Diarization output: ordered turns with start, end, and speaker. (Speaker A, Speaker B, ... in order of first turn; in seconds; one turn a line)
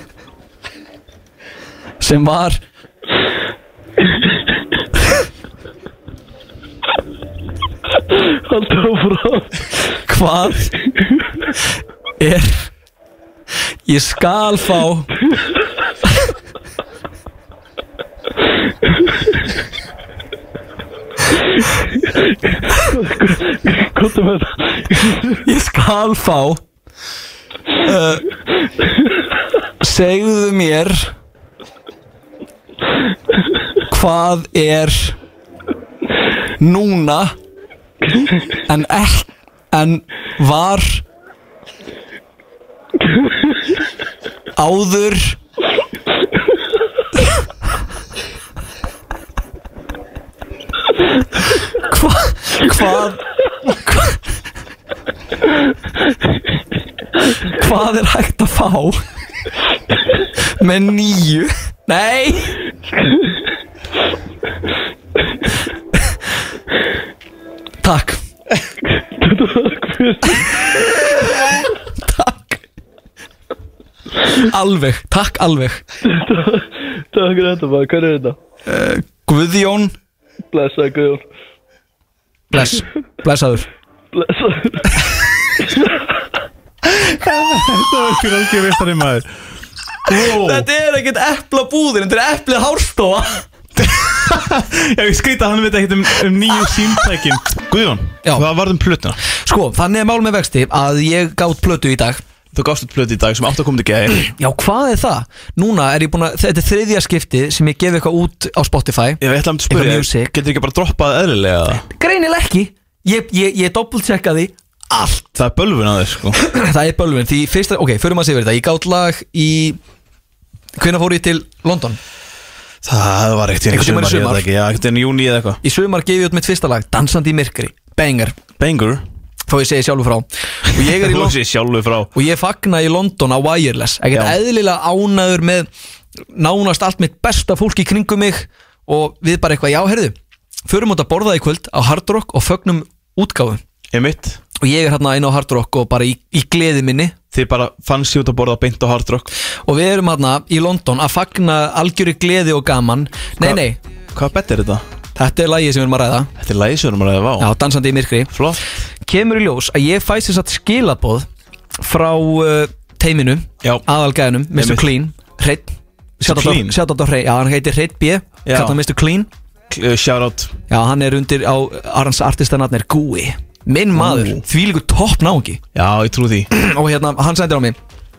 Speaker A: 2.0-2.6
Speaker B: 8.1-9.6
Speaker A: 10.1-10.7
Speaker A: 12.2-12.7
Speaker A: 13.9-15.1
Speaker B: 22.0-25.4
Speaker A: 25.4-26.6
Speaker A: 27.8-28.3
Speaker A: 29.8-31.1
Speaker A: 33.9-35.2
Speaker A: 36.6-37.3
Speaker A: 38.7-41.0
Speaker B: 43.0-43.6
Speaker A: 44.5-45.4
Speaker A: 51.8-54.2
Speaker A: 57.4-59.0
Speaker A: 60.4-62.6
Speaker B: 62.9-63.4
Speaker A: 67.8-68.2
Speaker B: 68.9-70.7
Speaker A: 71.0-71.4
Speaker A: 72.0-72.6
Speaker A: 74.4-75.8
Speaker B: 76.0-78.4
Speaker A: 78.7-79.9
Speaker B: 80.5-81.2
Speaker A: 82.5-83.7
Speaker B: 84.1-85.0
Speaker C: 86.8-89.3
Speaker C: 90.0-90.7
Speaker A: 90.1-93.5
Speaker C: 93.8-99.2
Speaker A: 99.4-102.2
Speaker C: 102.5-104.3
Speaker A: 104.2-110.3
Speaker C: 109.2-111.8
Speaker A: 111.9-115.3
Speaker C: 115.3-116.4
Speaker A: 116.3-119.8
Speaker A: 120.8-122.0
Speaker C: 122.8-125.6
Speaker A: 123.7-124.4
Speaker A: 125.6-128.3
Speaker C: 128.6-129.0
Speaker A: 129.5-131.4
Speaker C: 130.7-132.1
Speaker A: 132.1-135.7
Speaker C: 134.1-134.4
Speaker A: 136.3-140.1
Speaker A: 140.7-143.6
Speaker C: 143.9-144.4
Speaker A: 144.6-147.2
Speaker C: 147.3-149.3
Speaker A: 149.7-153.8
Speaker C: 153.4-154.8
Speaker A: 155.2-156.3
Speaker C: 156.4-157.5
Speaker A: 157.4-158.3
Speaker C: 158.3-158.6
Speaker A: 159.0-161.3
Speaker A: 161.8-169.3
Speaker C: 164.5-164.9
Speaker C: 166.2-166.8
Speaker C: 168.4-168.8
Speaker C: 169.7-170.5
Speaker A: 170.7-175.6
Speaker C: 173.9-174.4
Speaker C: 175.7-176.5
Speaker A: 176.5-177.8